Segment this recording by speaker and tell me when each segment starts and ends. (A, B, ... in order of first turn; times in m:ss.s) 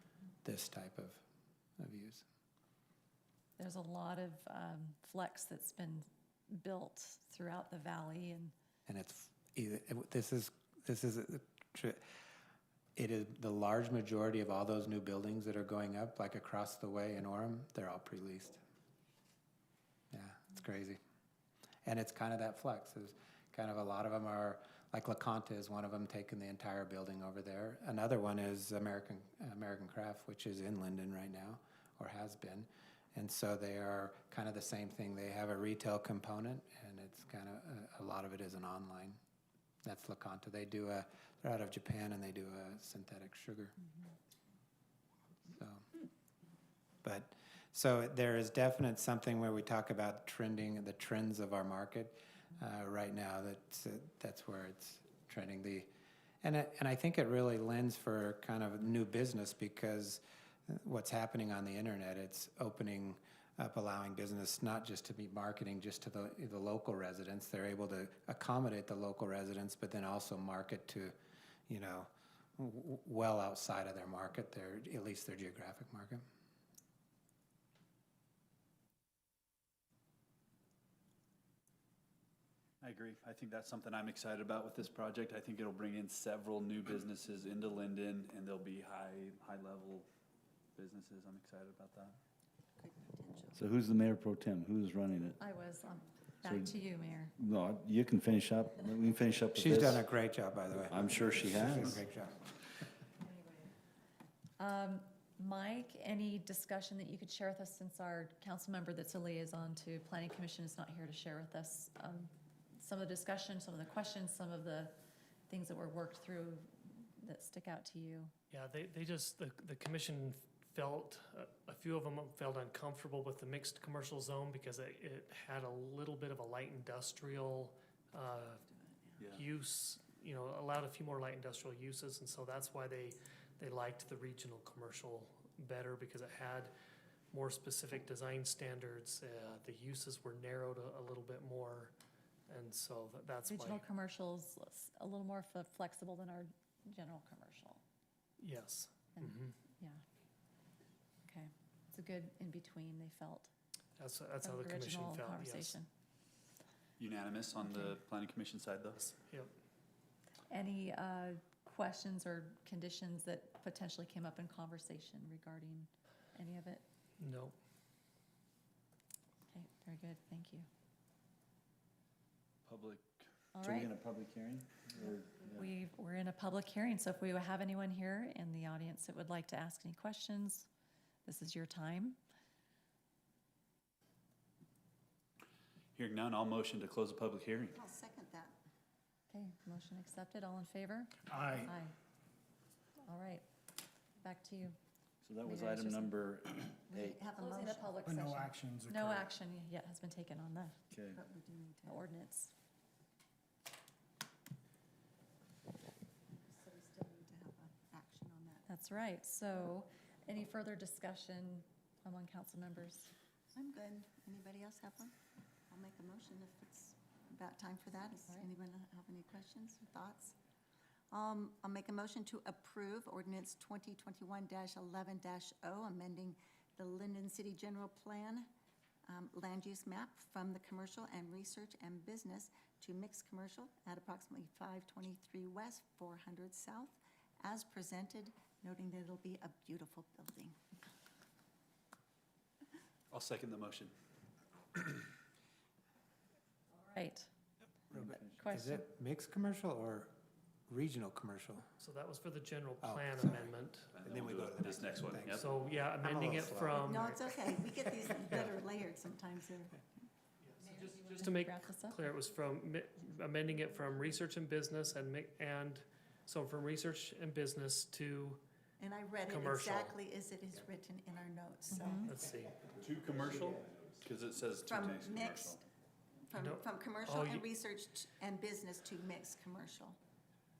0:00.4-0:01.2 A
0:01.8-0:02.2 A
0:03.6-0:08.5 B
0:08.9-0:12.0 A
0:13.0-0:18.6 A
0:20.1-0:21.0 A
0:21.8-0:39.2 A
0:39.8-0:43.7 A
0:45.5-0:45.8 A
0:47.0-0:55.9 A
0:56.4-1:11.1 A
1:11.7-1:16.2 A
1:22.8-1:30.1 C
1:30.8-1:32.2 C
1:32.8-1:33.6 D
1:33.5-1:35.4 E
1:35.4-1:37.3 B
1:36.4-1:36.7 E
1:37.4-1:40.0 E
1:39.5-1:42.4 A
1:40.9-1:42.0 E
1:43.2-1:43.7 B
1:44.6-1:55.0 B
1:55.5-1:58.3 B
1:58.5-2:08.6 F
2:09.3-2:16.7 F
2:17.3-2:21.9 F
2:22.5-2:23.8 F
2:23.5-2:27.8 B
2:28.4-2:29.5 F
2:29.2-2:30.0 B
2:31.2-2:33.5 B
2:34.0-2:35.8 F
2:34.4-2:35.9 B
2:37.0-2:39.2 C
2:39.2-2:39.5 F
2:40.5-2:46.8 B
2:47.2-2:47.6 F
2:49.5-2:50.7 B
2:52.6-2:53.3 C
2:53.5-2:53.9 B
2:53.6-2:54.4 E
2:54.6-2:55.1 C
2:55.1-2:55.6 E
2:55.5-3:00.7 B
3:01.2-3:02.2 B
3:06.0-3:07.8 C
3:07.7-3:08.5 D
3:09.3-3:11.9 B
3:13.0-3:13.4 B
3:14.2-3:14.8 B
3:15.2-3:17.2 E
3:15.4-3:16.2 B
3:16.9-3:17.9 D
3:17.4-3:20.8 B
3:20.9-3:21.2 E
3:21.1-3:22.0 D
3:21.8-3:22.5 B
3:26.5-3:28.6 D
3:28.7-3:33.1 B
3:33.5-3:35.1 D
3:35.7-3:40.3 D
3:41.1-3:48.5 D
3:49.0-4:00.5 D
4:03.1-4:03.9 C
4:06.8-4:07.3 B
4:07.9-4:10.1 A
4:08.4-4:08.8 B
4:10.7-4:11.7 A
4:11.8-4:13.9 F
4:12.8-4:13.5 A
4:13.9-4:15.5 C
4:14.0-4:17.0 A
4:15.3-4:17.2 F
4:16.5-4:20.0 D
4:20.4-4:28.4 F
4:20.9-4:22.1 B
4:28.8-4:32.1 D
4:29.2-4:30.0 F
4:31.7-4:32.1 B
4:32.0-4:32.6 F
4:32.8-4:35.6 C
4:34.7-4:35.6 D
4:36.3-4:40.0 D
4:36.4-4:37.5 F